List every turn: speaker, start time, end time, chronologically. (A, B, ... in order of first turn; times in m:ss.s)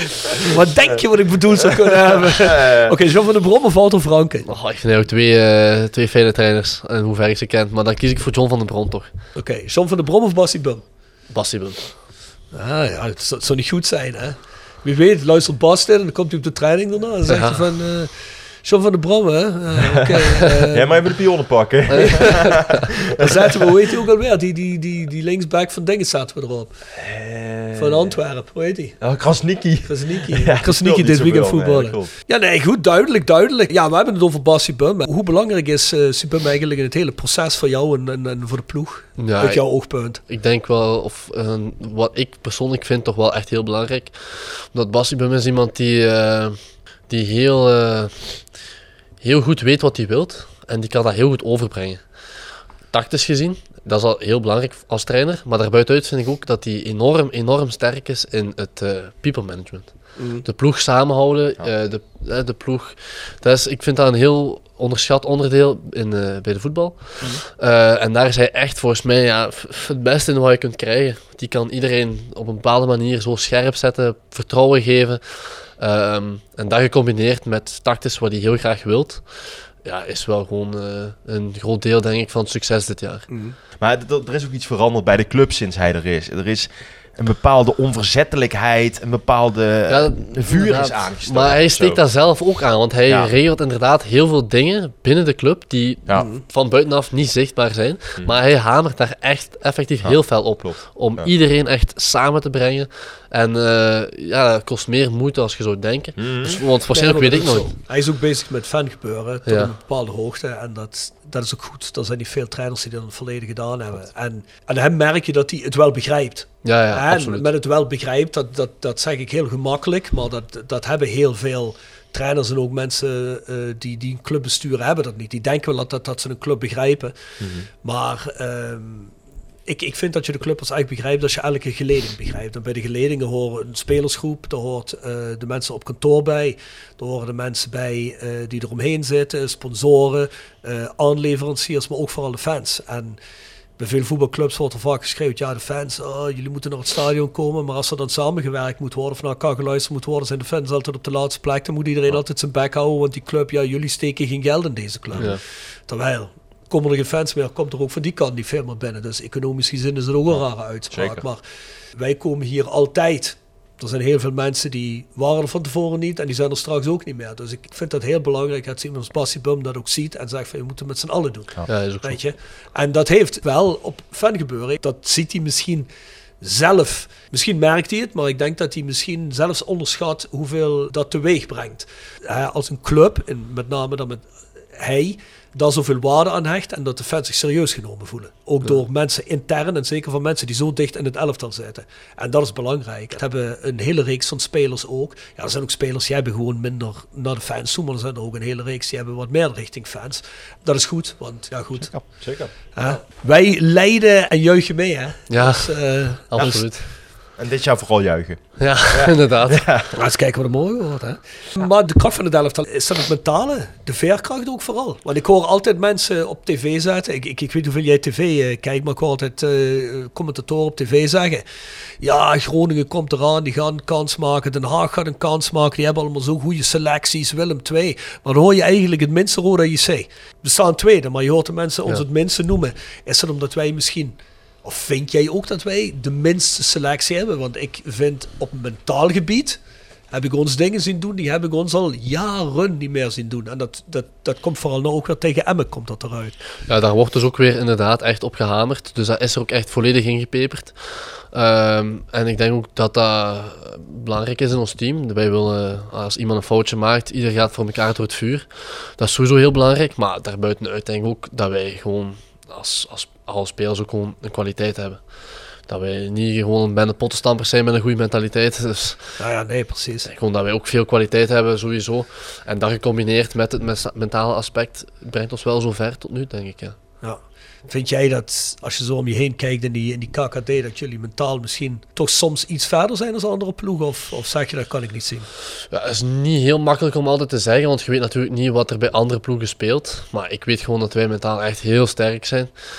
0:00.3-0:04.5 A
0:02.1-0:03.0 B
0:04.5-0:09.1 C
0:09.4-0:10.8 A
0:11.3-0:11.8 C
0:12.5-0:18.1 A
0:17.3-0:17.6 C
0:18.6-0:21.0 A
0:19.8-0:23.8 B
0:21.9-0:22.4 A
0:22.0-0:22.6 C
0:23.2-0:26.7 A
0:26.9-0:28.2 B
0:27.7-0:29.0 A
0:29.0-0:32.1 B
0:29.8-0:40.2 A
0:39.2-0:39.6 C
0:40.3-0:46.6 C
0:47.1-0:48.1 C
0:49.2-0:52.0 C
0:52.9-0:59.9 C
1:00.2-1:00.4 A
1:00.4-1:19.2 C
1:19.8-1:23.3 C
1:23.3-1:23.6 A
1:23.8-1:32.0 B
1:29.9-1:47.7 C
1:33.1-1:33.3 B
1:40.0-1:41.3 B
1:46.2-1:46.6 B
1:46.9-2:07.1 A
1:49.5-1:49.7 C
1:56.6-1:57.5 C
2:07.4-2:07.6 B
2:07.8-2:09.1 A
2:09.7-2:23.2 A
2:23.8-2:41.4 A
2:40.9-2:41.2 B
2:42.0-2:55.9 A
2:51.7-2:52.2 C
2:56.4-3:04.2 A
3:04.8-3:21.9 A
3:21.8-3:22.5 B
3:22.7-3:26.3 A
3:25.3-3:26.8 C
3:26.4-3:26.6 B
3:27.4-3:29.9 B
3:28.6-3:29.6 C
3:29.9-3:41.4 A
3:42.0-3:59.6 A
4:00.1-4:06.3 A
4:06.7-4:10.8 C
4:11.3-4:18.5 C
4:19.0-4:25.0 C
4:25.7-4:29.0 C
4:29.2-4:30.1 A
4:30.0-4:36.7 C
4:37.0-4:45.3 A
4:45.7-4:52.5 C